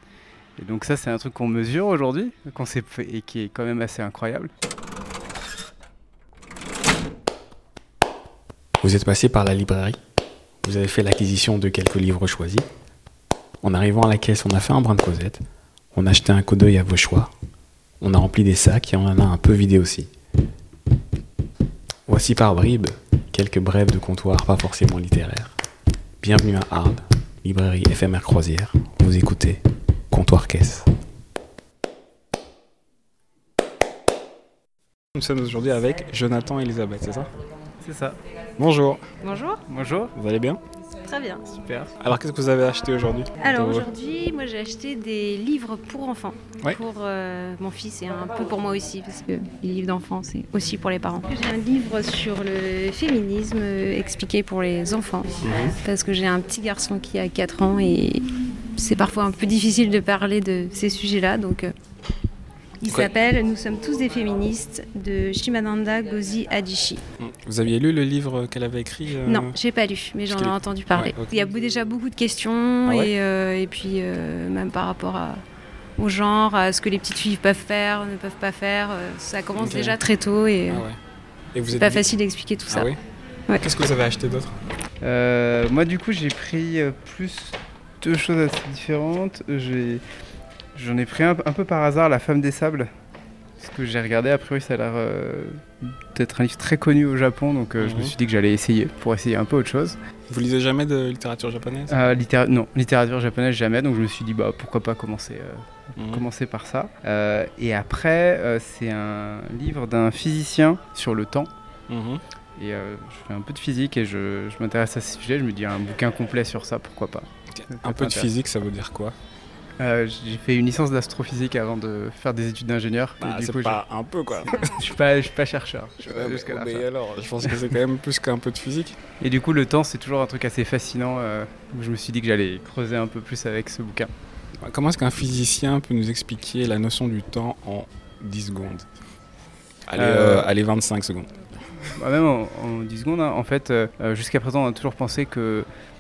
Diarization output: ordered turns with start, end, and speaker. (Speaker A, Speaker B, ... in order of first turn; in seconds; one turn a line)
Speaker A: 0.6-4.5
Speaker B: 8.8-10.0
Speaker B: 10.6-12.7
Speaker B: 13.6-17.3
Speaker B: 18.0-20.1
Speaker B: 22.1-25.5
Speaker B: 26.2-30.9
Speaker B: 35.1-37.3
Speaker A: 37.8-38.2
Speaker B: 38.6-39.0
Speaker C: 39.2-39.6
Speaker A: 39.7-40.1
Speaker B: 40.1-40.6
Speaker C: 41.0-41.5
Speaker A: 41.5-41.9
Speaker B: 42.0-43.9
Speaker C: 43.4-58.2
Speaker B: 55.4-55.8
Speaker C: 58.8-61.7
Speaker C: 62.8-67.0
Speaker B: 67.2-69.6
Speaker C: 69.2-75.4
Speaker B: 70.3-71.4
Speaker B: 72.9-73.1
Speaker C: 76.0-80.8
Speaker B: 79.6-80.0
Speaker B: 80.7-81.0
Speaker B: 81.5-82.1
Speaker C: 81.7-82.9
Speaker B: 82.7-83.0
Speaker B: 83.6-84.5
Speaker A: 85.0-90.0
Speaker A: 90.8-92.9
Speaker A: 93.6-100.0
Speaker B: 97.8-98.1
Speaker B: 100.3-102.0
Speaker A: 101.9-111.5
Speaker B: 106.0-106.3
Speaker B: 111.9-112.2
Speaker A: 112.6-118.3
Speaker B: 117.5-119.2
Speaker A: 119.8-123.8
Speaker B: 123.2-124.7
Speaker A: 124.5-126.9
Speaker B: 126.0-129.0
Speaker A: 129.2-134.1
Speaker B: 134.6-138.9
Speaker B: 139.9-141.3
Speaker A: 140.0-140.5
Speaker A: 141.8-145.7